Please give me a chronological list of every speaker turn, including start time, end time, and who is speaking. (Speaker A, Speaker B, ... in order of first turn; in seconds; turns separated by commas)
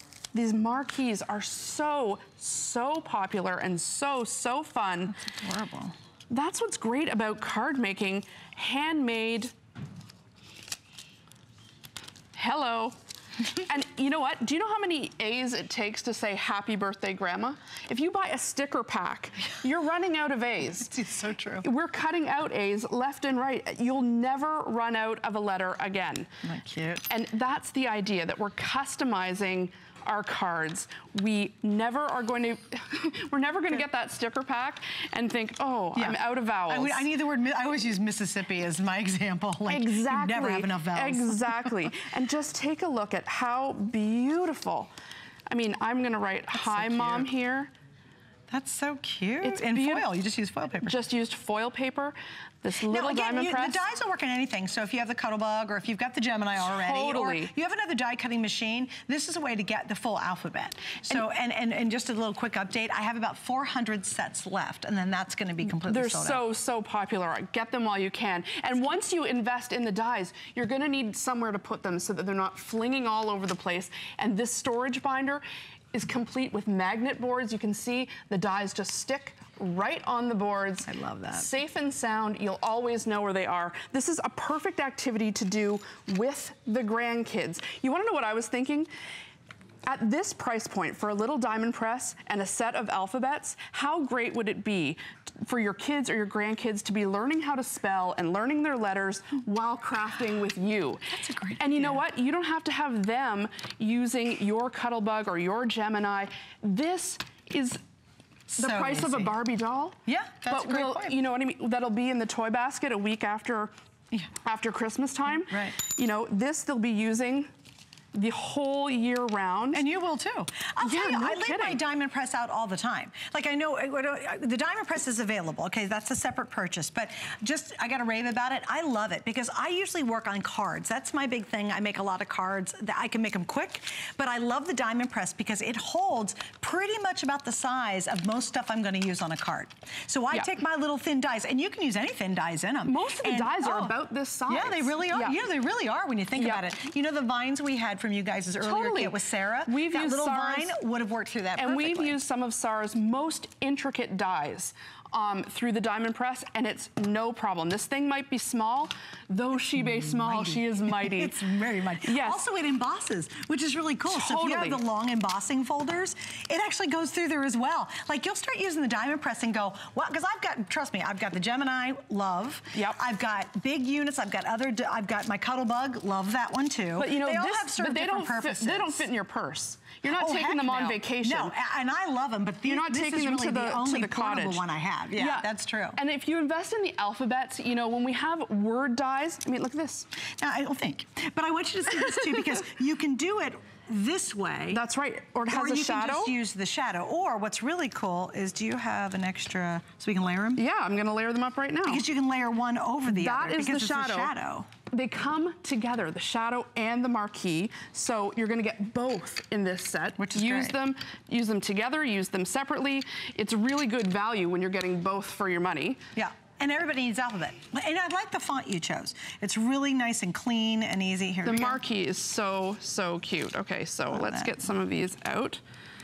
Speaker A: 0.3-5.1, Speaker B: 5.2-5.9, Speaker A: 6.3-9.5, Speaker A: 12.3-12.9, Speaker A: 13.7-20.9, Speaker B: 20.8-21.7, Speaker A: 21.6-26.3, Speaker B: 26.4-27.1, Speaker A: 27.1-37.1, Speaker B: 35.9-41.7, Speaker A: 39.7-44.9, Speaker A: 45.5-47.7, Speaker B: 46.5-47.3, Speaker B: 48.5-51.0, Speaker A: 49.4-50.1, Speaker A: 50.8-53.9, Speaker B: 52.9-66.5, Speaker A: 56.5-57.5, Speaker A: 65.8-88.9, Speaker B: 80.8-81.5, Speaker A: 89.8-107.8, Speaker B: 101.1-102.0, Speaker A: 108.5-113.7, Speaker B: 108.5-109.3, Speaker B: 110.0-111.1, Speaker A: 114.4-117.5, Speaker B: 115.5-115.8, Speaker A: 118.1-119.8, Speaker B: 119.7-144.0, Speaker A: 120.8-121.8, Speaker A: 142.8-145.4, Speaker B: 144.5-152.2, Speaker A: 146.3-146.7, Speaker A: 148.6-150.7, Speaker A: 151.6-161.5, Speaker B: 159.8-179.1, Speaker A: 162.0-162.4, Speaker A: 164.1-164.8, Speaker A: 172.7-173.0, Speaker A: 176.9-181.5, Speaker B: 180.0-186.0, Speaker A: 182.6-190.1, Speaker B: 190.4-194.8, Speaker A: 194.7-196.3, Speaker B: 195.5-200.6, Speaker A: 200.6-202.0, Speaker B: 201.8-204.7, Speaker A: 203.1-204.3, Speaker A: 204.9-216.0, Speaker B: 210.2-210.8, Speaker B: 216.1-221.8, Speaker A: 221.4-225.6, Speaker B: 224.1-224.5